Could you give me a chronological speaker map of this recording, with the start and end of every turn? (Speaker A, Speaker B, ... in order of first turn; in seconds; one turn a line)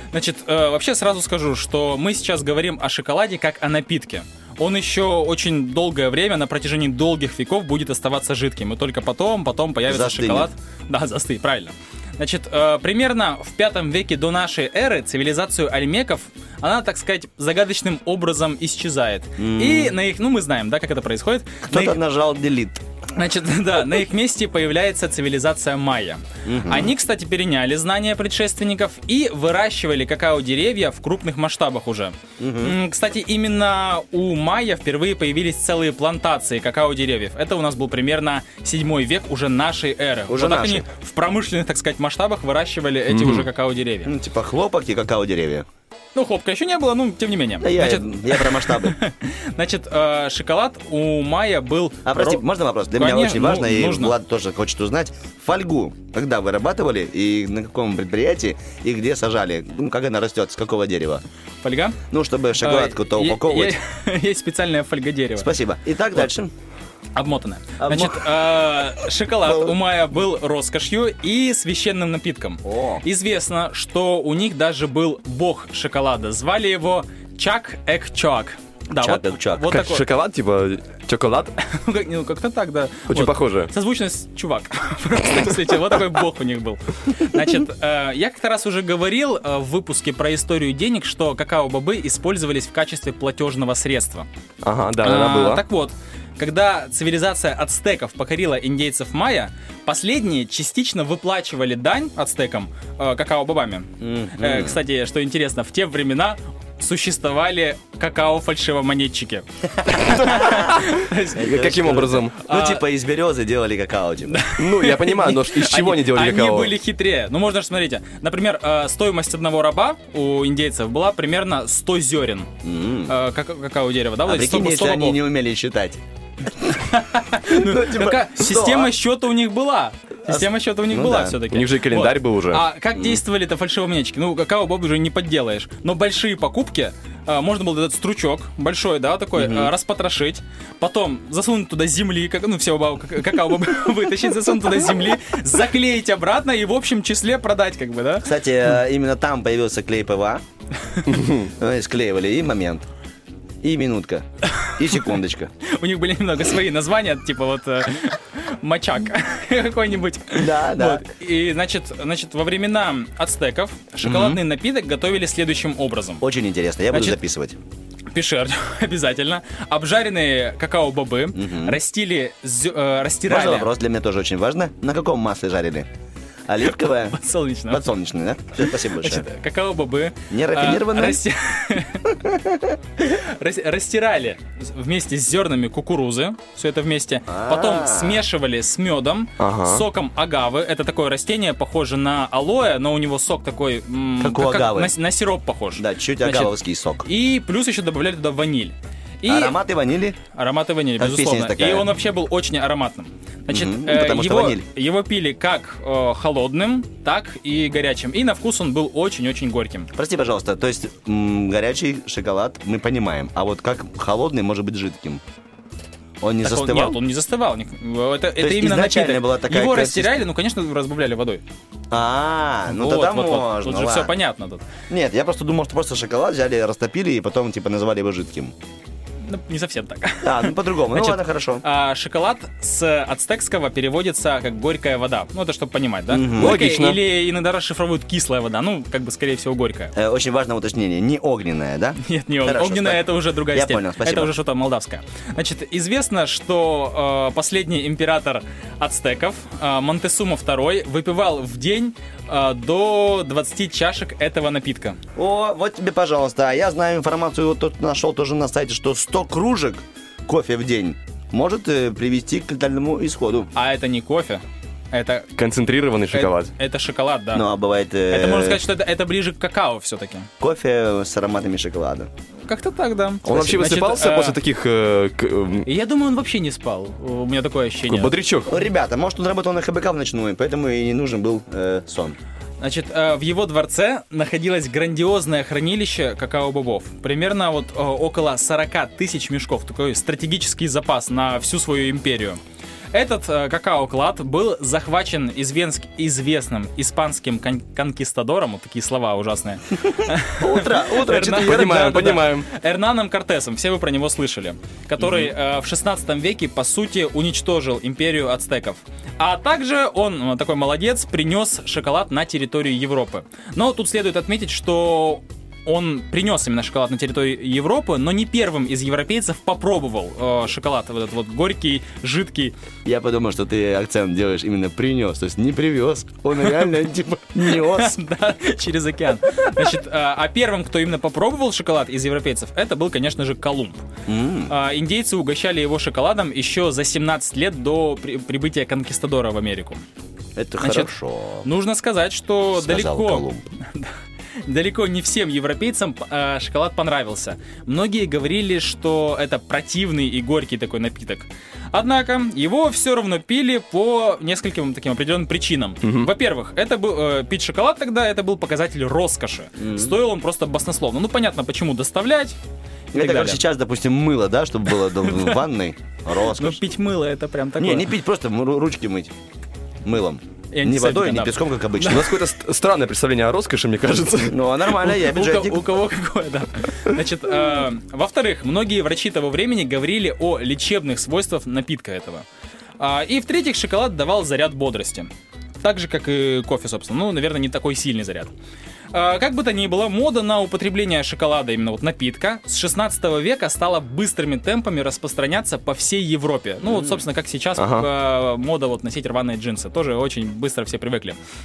Speaker A: 0.1-22.0
Speaker B: 9.9-10.5
Speaker B: 19.4-20.0
Speaker B: 21.7-22.8
Speaker A: 23.1-44.1
Speaker B: 26.4-26.9
Speaker B: 32.4-32.8
Speaker B: 40.3-40.9
Speaker C: 43.1-43.5
Speaker B: 44.1-45.7
Speaker A: 46.1-54.1
Speaker B: 47.6-49.0
Speaker B: 52.0-61.2
Speaker A: 61.6-62.0
Speaker B: 62.1-63.8
Speaker A: 62.6-65.5
Speaker B: 65.4-66.5
Speaker A: 67.2-80.1
Speaker B: 67.8-68.2
Speaker B: 69.5-69.8
Speaker B: 72.6-73.0
Speaker B: 79.0-79.7
Speaker C: 79.7-81.5
Speaker A: 81.6-94.3
Speaker C: 83.1-83.7
Speaker C: 94.6-95.6
Speaker A: 95.0-111.4
Speaker B: 104.0-104.8
Speaker B: 110.1-110.7
Speaker B: 111.4-114.4
Speaker C: 111.4-112.4
Speaker A: 112.4-112.8
Speaker A: 114.3-122.5
Speaker C: 114.6-116.7
Speaker B: 122.6-123.1
Speaker A: 123.1-125.2
Speaker B: 124.3-126.0
Speaker A: 126.7-148.3
Speaker B: 127.5-128.9
Speaker B: 130.3-131.4
Speaker C: 131.5-132.6
Speaker B: 132.9-133.2
Speaker B: 139.4-139.7
Speaker B: 148.2-150.4
Speaker C: 151.1-151.4
Speaker B: 151.4-152.9
Speaker B: 153.6-155.5
Speaker A: 155.6-166.2
Speaker B: 160.3-161.1
Speaker B: 164.0-164.4
Speaker B: 166.2-167.6
Speaker A: 166.9-167.2
Speaker A: 168.1-173.7
Speaker B: 171.3-171.8
Speaker B: 173.3-175.9
Speaker B: 176.5-177.2
Speaker A: 176.7-177.8
Speaker B: 177.7-179.3
Speaker A: 178.6-182.2
Speaker B: 180.3-181.2
Speaker B: 182.2-182.6
Speaker A: 183.0-199.6
Speaker B: 187.3-188.2
Speaker C: 189.4-189.8
Speaker B: 194.2-194.9
Speaker B: 195.8-197.1
Speaker B: 199.3-200.2
Speaker A: 200.3-209.9
Speaker B: 201.0-201.9
Speaker B: 203.5-204.7
Speaker B: 209.9-215.2
Speaker B: 216.2-217.0
Speaker A: 216.4-221.4
Speaker B: 218.4-220.2
Speaker B: 221.9-224.1
Speaker A: 222.7-224.7
Speaker B: 224.9-228.5
Speaker A: 229.2-239.9
Speaker B: 230.2-231.6
Speaker B: 236.1-236.6
Speaker C: 236.4-237.0
Speaker B: 240.0-244.3
Speaker A: 242.0-255.0
Speaker B: 255.2-263.5
Speaker A: 263.5-265.3
Speaker C: 265.4-266.5
Speaker A: 266.1-267.4
Speaker B: 267.3-268.6
Speaker A: 268.1-270.3
Speaker B: 270.4-272.1
Speaker A: 272.5-274.4
Speaker B: 273.2-273.7
Speaker C: 273.2-275.7
Speaker A: 275.7-278.1
Speaker C: 277.9-278.5
Speaker B: 278.5-282.2
Speaker A: 282.6-292.4
Speaker A: 292.9-322.6
Speaker B: 300.4-302.0
Speaker C: 301.2-302.5
Speaker B: 322.9-328.0
Speaker A: 327.4-333.8
Speaker B: 334.1-334.5
Speaker A: 334.5-339.8
Speaker B: 340.4-341.5
Speaker A: 340.6-340.9
Speaker A: 341.4-343.9
Speaker B: 342.5-343.5
Speaker A: 344.5-362.4
Speaker C: 355.8-356.1
Speaker B: 359.6-359.9
Speaker A: 362.9-363.4
Speaker B: 362.9-366.6
Speaker A: 365.0-365.4
Speaker A: 366.3-367.9
Speaker B: 367.6-369.1
Speaker B: 369.8-372.1
Speaker A: 370.5-372.1
Speaker C: 371.9-374.9
Speaker B: 374.3-375.6
Speaker A: 375.0-382.2
Speaker A: 382.8-385.1
Speaker A: 385.6-388.3
Speaker A: 388.9-401.2
Speaker B: 396.6-397.0
Speaker C: 397.6-397.9